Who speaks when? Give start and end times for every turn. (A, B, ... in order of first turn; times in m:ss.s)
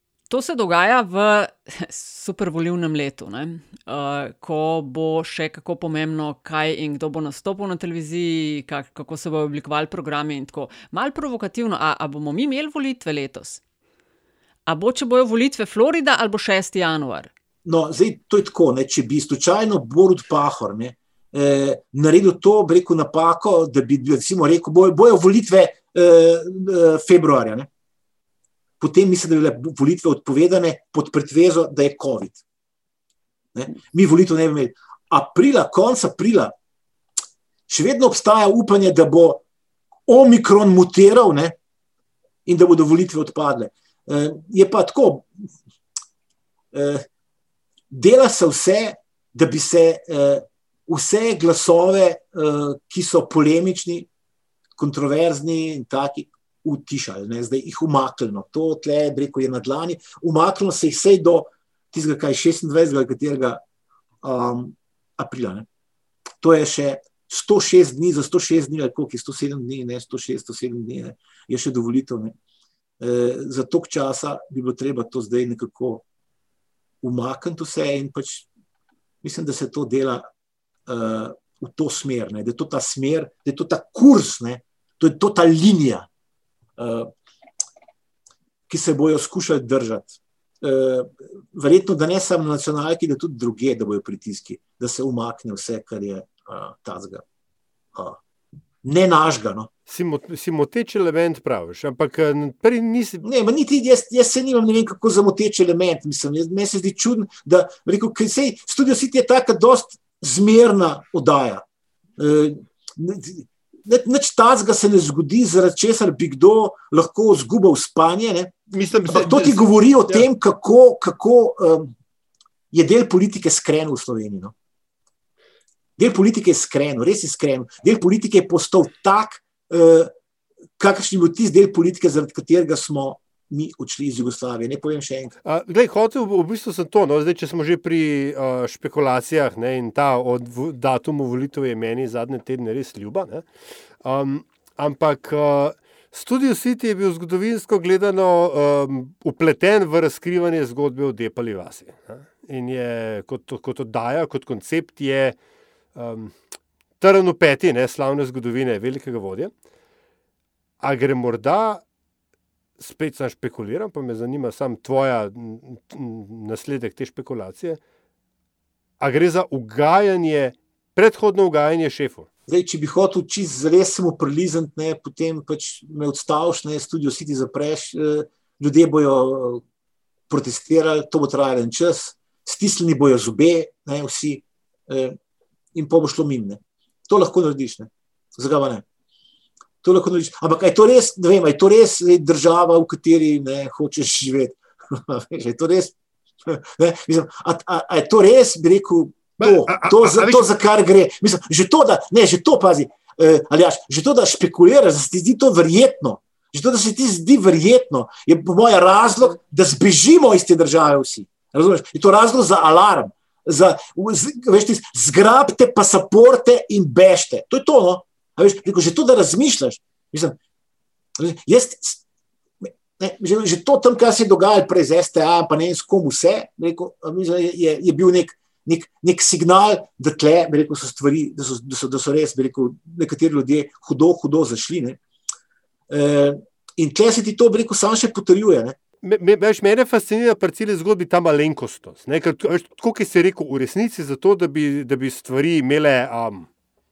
0:00.3-0:13.6 A
0:14.7-0:17.3 A
0:17.6-0:27.7 B
0:28.8-0:32.4 B
0:33.5-0:36.5 B
0:37.7-0:39.4 B
0:40.1-0:41.6 B
0:42.4-0:45.5 B
0:46.7-0:47.1 B
0:47.9-0:54.1 B
0:54.8-1:03.6 B
1:04.2-1:05.7 B
1:06.4-1:12.4 B
1:13.0-1:16.0 B
1:17.0-1:18.5 B
1:19.2-1:20.2 B
1:20.9-1:26.1 B
1:26.8-1:27.1 B
1:28.7-1:37.2 B
1:38.8-1:39.7 B
1:39.9-1:43.2 C
1:43.2-1:51.6 B
1:52.2-1:58.6 B
1:58.7-2:00.3 C
1:59.1-2:01.9 B
2:02.7-2:04.5 B
2:06.0-2:10.1 B
2:10.8-2:15.4 B
2:15.5-2:23.5 C
2:24.0-2:35.4 C
2:36.0-2:36.4 C
2:37.0-2:39.5 C
2:40.8-2:41.8 C
2:42.8-2:47.8 C
2:49.0-2:52.3 C
2:52.5-2:59.6 B
3:00.3-3:05.2 B
3:05.7-3:08.8 B
3:09.8-3:16.0 B
3:16.5-3:40.4 B
3:19.4-3:20.5 C
3:41.2-3:42.0 B
3:42.6-3:55.0 B
3:55.9-3:58.8 B
3:59.0-4:06.5 C